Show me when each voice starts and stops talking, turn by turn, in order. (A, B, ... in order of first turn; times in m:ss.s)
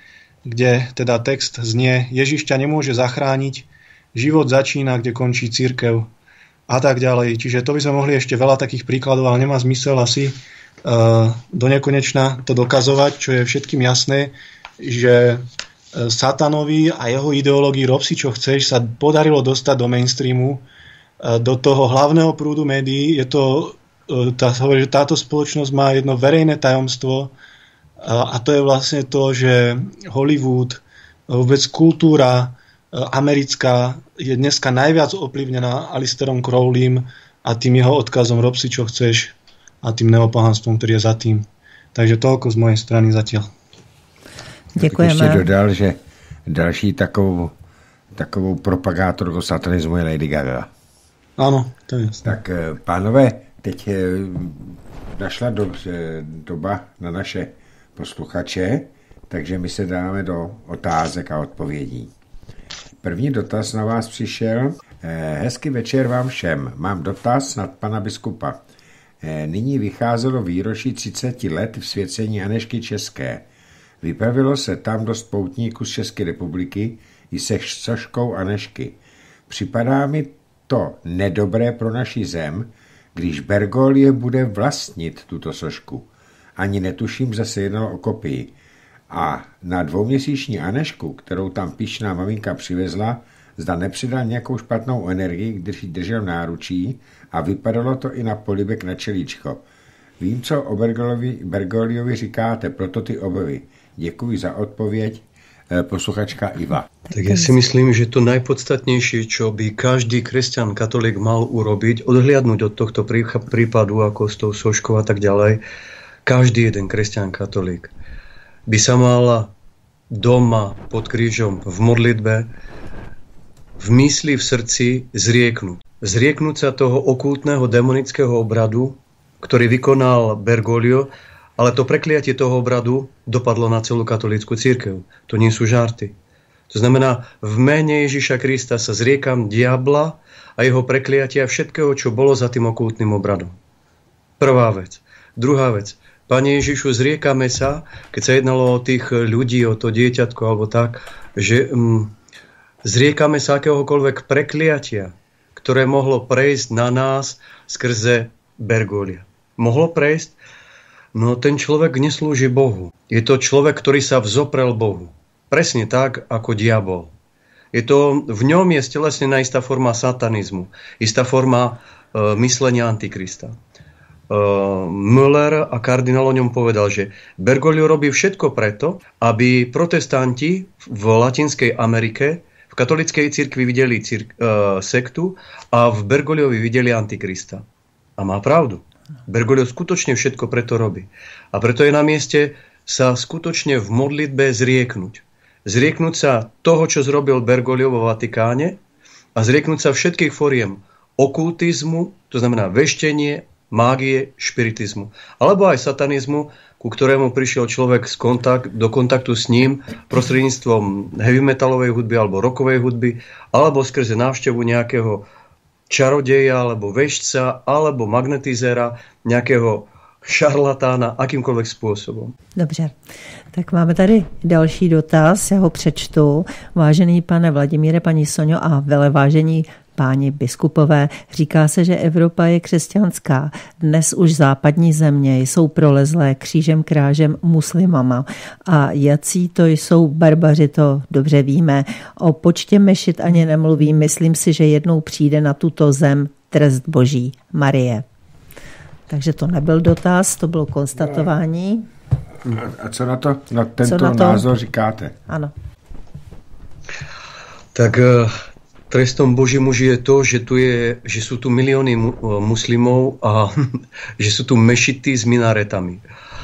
0:00.4-0:06.1 A
0:06.7-0:20.6 A
0:21.2-0:27.3 A
0:28.0-0:43.5 A
0:44.8-0:45.4 B
0:44.8-0:47.5 C
0:48.1-0:50.7 C
0:51.4-0:52.4 A
0:52.2-1:02.1 C
1:03.0-1:08.6 C
1:09.2-1:13.4 C
1:14.0-1:19.0 C
1:19.5-1:28.5 C
1:29.1-1:39.6 C
1:40.2-1:46.9 C
1:47.1-1:47.5 B
1:47.1-1:55.6 D
1:56.2-1:57.9 D
1:58.7-1:59.5 D
2:00.1-2:02.5 D
2:03.8-2:16.1 D
2:16.7-2:23.5 D
2:24.4-2:32.1 D
2:32.8-2:40.4 D
2:41.1-2:47.1 D
2:47.7-2:53.5 D
2:54.3-3:07.6 D
3:08.2-3:18.8 D
3:19.4-3:35.2 D
3:35.9-3:42.3 D
3:42.6-3:43.0 B
3:43.5-4:08.0 B
4:09.1-4:11.8 B
4:12.5-4:15.2 C
4:13.8-4:14.5 B
4:15.3-4:15.5 B
4:17.8-4:18.3 D
4:18.9-4:26.0 D